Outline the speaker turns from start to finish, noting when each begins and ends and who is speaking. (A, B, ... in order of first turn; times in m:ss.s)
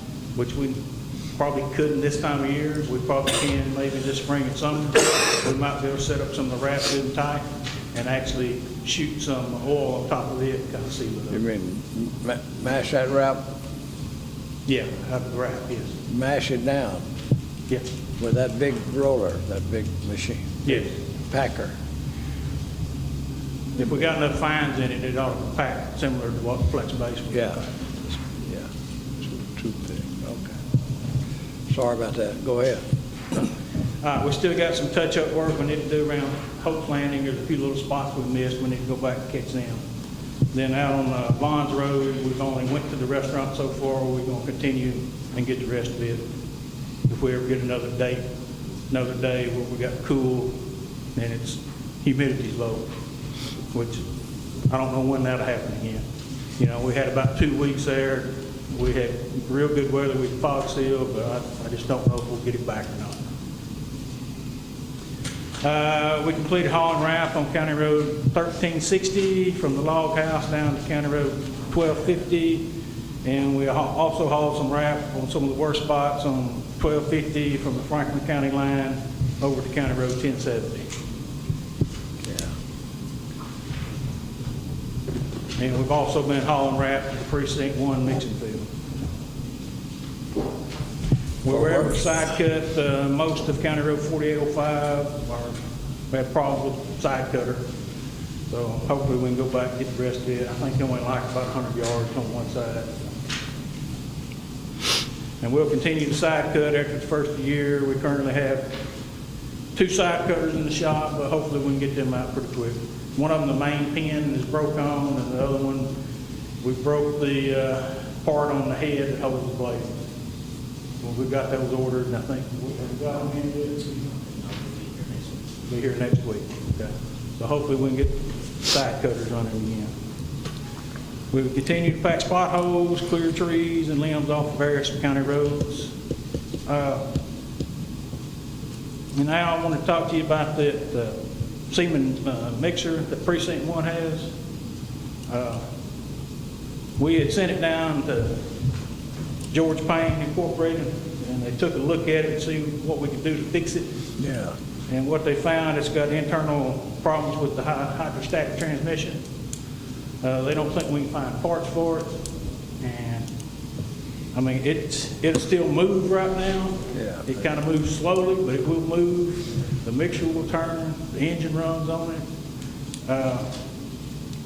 0:00.4-0:00.8 A
0:01.4-0:11.4 A
0:11.3-0:13.4 B
0:14.7-0:16.0 A
0:16.1-0:17.0 B
0:18.2-0:21.7 B
0:20.6-0:21.0 A
0:23.8-0:27.9 A
0:27.3-0:28.7 B
0:29.2-0:30.6 B
0:31.7-0:32.8 B
0:34.0-0:39.8 A
0:40.5-0:46.2 A
0:47.1-0:48.3 A
0:48.9-0:50.6 A
0:51.2-0:52.9 A
0:53.7-0:54.0 A
0:54.7-0:56.0 A
0:56.6-1:03.2 A
1:05.6-1:12.7 A
1:13.2-1:20.9 A
1:22.2-1:22.5 B
1:25.6-1:28.7 A
1:31.4-1:37.7 A
1:31.5-1:32.1 B
1:38.5-1:43.1 A
1:45.4-1:48.7 A
1:49.8-1:55.9 A
1:56.6-1:59.9 A
2:01.0-2:04.2 A
2:05.7-2:09.9 A
2:11.3-2:15.9 A
2:16.7-2:17.1 A
2:19.2-2:24.3 A
2:25.3-2:25.6 A
2:27.0-2:28.4 A
2:29.5-2:33.9 A
2:34.2-2:34.6 B
2:34.9-2:39.2 A
2:40.2-2:42.2 A
2:42.8-2:43.3 A
2:44.3-2:52.2 A
2:46.9-2:47.3 B
2:53.1-2:53.5 A